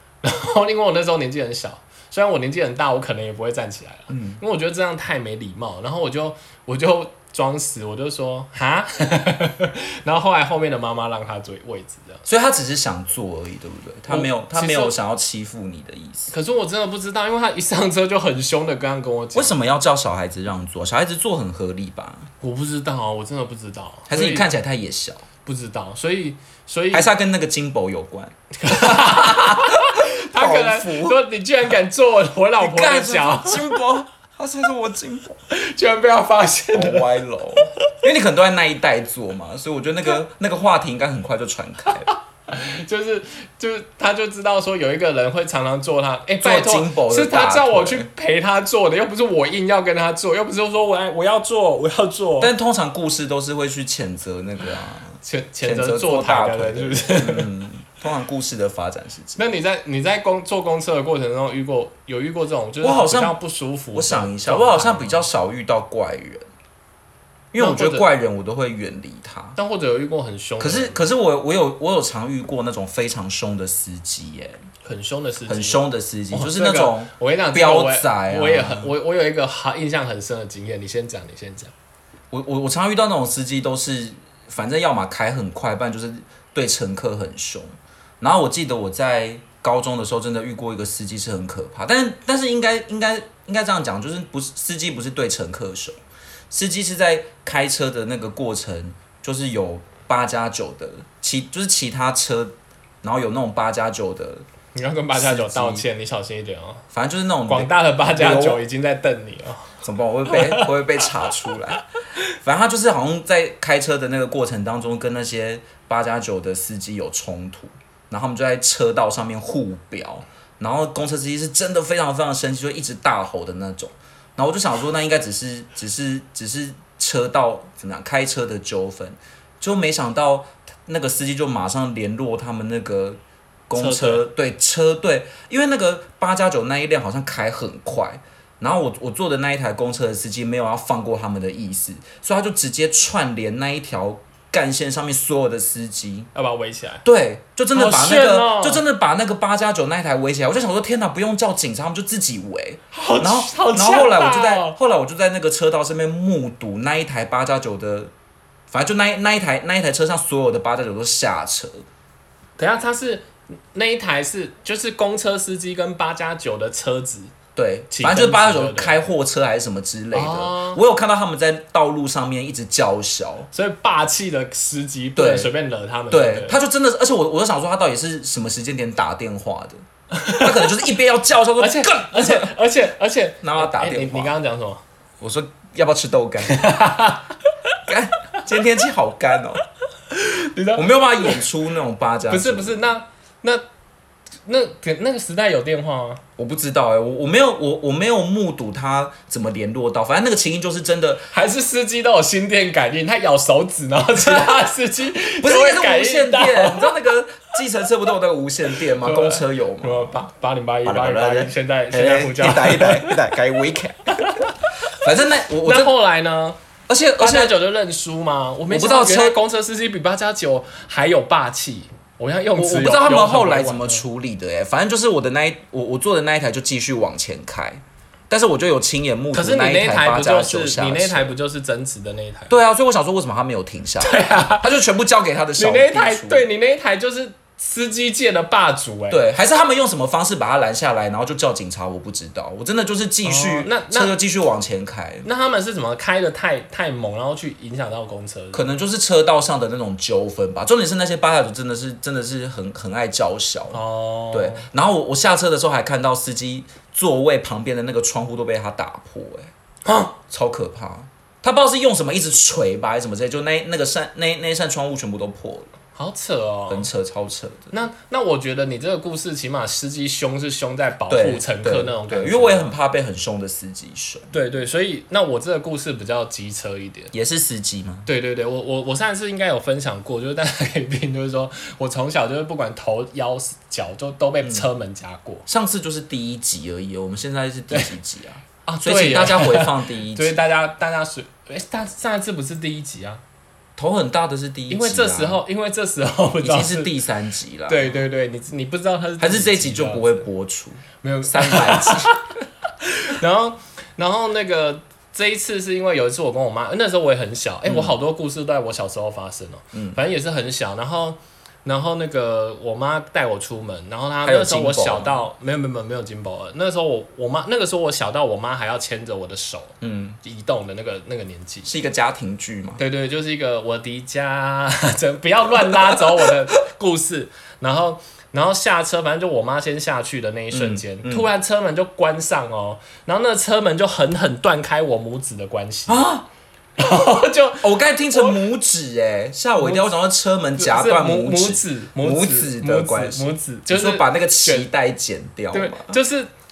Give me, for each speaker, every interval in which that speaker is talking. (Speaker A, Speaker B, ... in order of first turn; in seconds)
Speaker A: 0.2-12.2, 14.1-14.9, 16.3-19.6, 22.4-24.5, 25.4-27.1, 28.6-33.8, 35.5-37.1, 42.0-52.5, 55.2-57.5, 59.4-65.2, 67.6-68.1, 69.6-71.0, 74.8-81.7, 104.8-106.8, 107.5-109.8, 110.3-110.7, 133.8-134.2, 146.3-147.0, 147.7-148.8, 152.9-154.8, 162.6-167.3, 167.9-169.0, 170.1-170.8, 173.5-176.6, 180.1-180.7, 181.6-184.8, 186.5-187.8, 190.1-191.4, 192.3-193.6, 194.5-196.2, 201.3-206.9, 209.0-213.2, 214.1-214.5, 215.6-216.6, 217.2-224.0, 229.3-232.6, 234.0-234.7, 235.6-239.2, 243.2-244.1, 245.2-248.7, 253.7-254.7, 259.9-260.1, 265.9-266.9, 267.7-272.7, 274.3-277.1, 278.1-285.5, 288.7-293.2, 294.7-296.9, 297.7-300.2, 301.0-302.2, 302.8-321.7, 322.8-336.1, 336.8-338.4, 339.6-339.9, 340.6-344.7, 345.5-346.3
Speaker B: 4.1-4.4, 12.2-16.3, 19.3-22.3, 24.1-25.2, 26.9-31.2, 32.6-35.4, 36.7-42.1, 46.4-48.1, 52.4-59.4, 62.8-63.4, 63.9-66.5, 67.5-69.6, 70.6-74.7, 75.5-78.9, 82.3-96.0, 96.5-104.5, 105.1-105.8, 106.9-108.6, 109.8-111.8, 112.4-146.3, 147.1-158.1, 158.7-161.8, 167.6-173.5, 175.2-175.5, 176.1-179.8, 180.3-182.5, 183.4-184.3, 185.2-186.7, 187.9-189.6, 190.7-192.8, 196.4-201.3, 204.2-204.5, 205.4-210.2, 210.8-215.9, 216.9-217.6, 218.7-219.4, 222.6-231.3, 232.5-236.5, 239.1-245.2, 248.5-253.8, 254.3-259.5, 260.3-265.7, 266.7-267.7, 271.1-274.3, 277.1-278.1, 285.5-290.4, 293.8-295.4, 296.4-298.1, 299.2-302.1, 307.6-307.9, 309.7-310.0, 314.2-315.2, 319.8-320.2, 321.6-322.8, 330.5-331.3, 335.9-336.2, 337.6-346.0